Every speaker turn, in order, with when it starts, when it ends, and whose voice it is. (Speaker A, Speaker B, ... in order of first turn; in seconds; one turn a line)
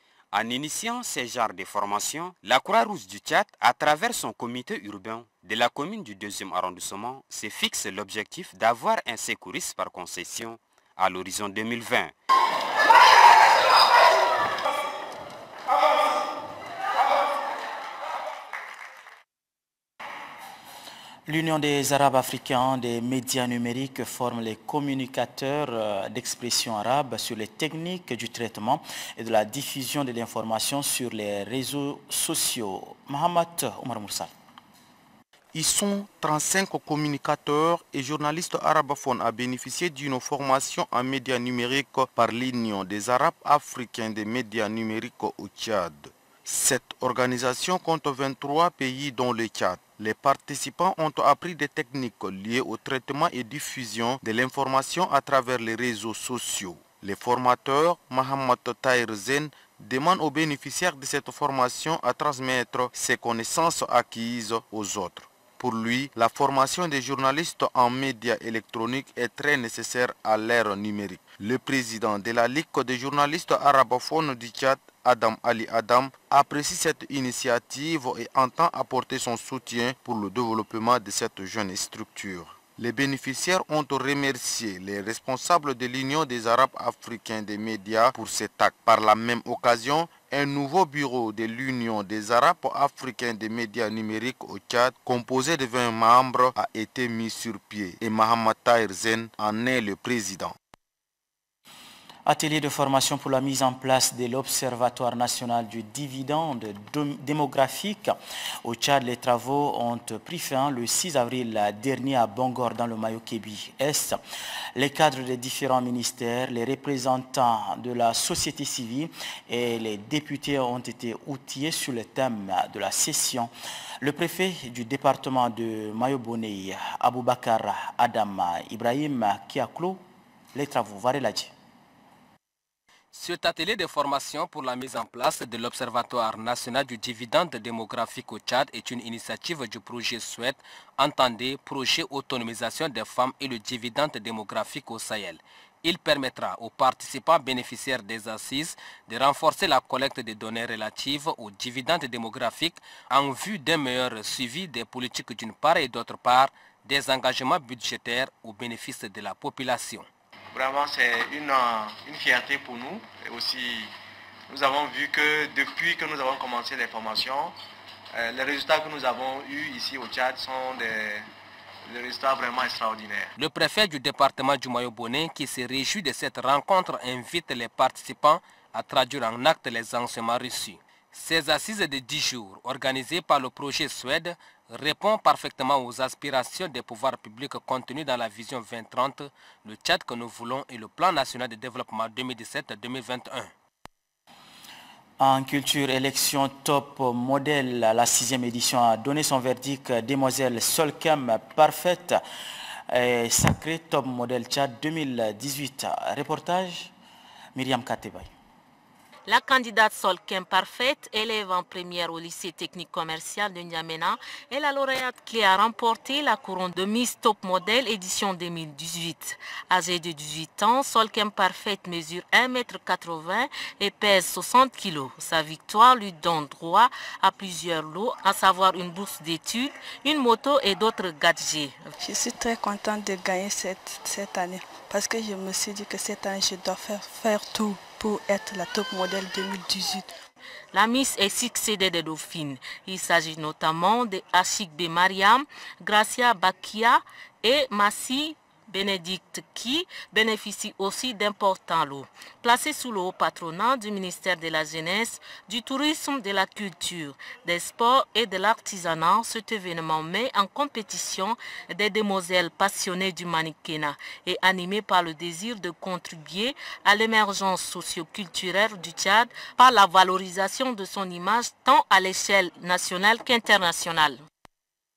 Speaker A: 0.3-12.1
Speaker B: 21.2-34.3
Speaker C: 35.5-100.5
Speaker B: 102.2-114.2
Speaker B: 114.7-130.0
Speaker B: 130.5-131.5
Speaker D: 133.1-160.1
Speaker E: 160.5-163.9
Speaker E: 164.5-167.5
Speaker E: 168.1-171.3
Speaker E: 171.9-173.3
Speaker D: 173.4-193.5
Speaker B: 195.2-202.2
Speaker B: 202.9-206.9
Speaker B: 207.5-208.3
Speaker F: 209.2-231.9
Speaker G: 232.0-240.1
Speaker F: 240.7-274.2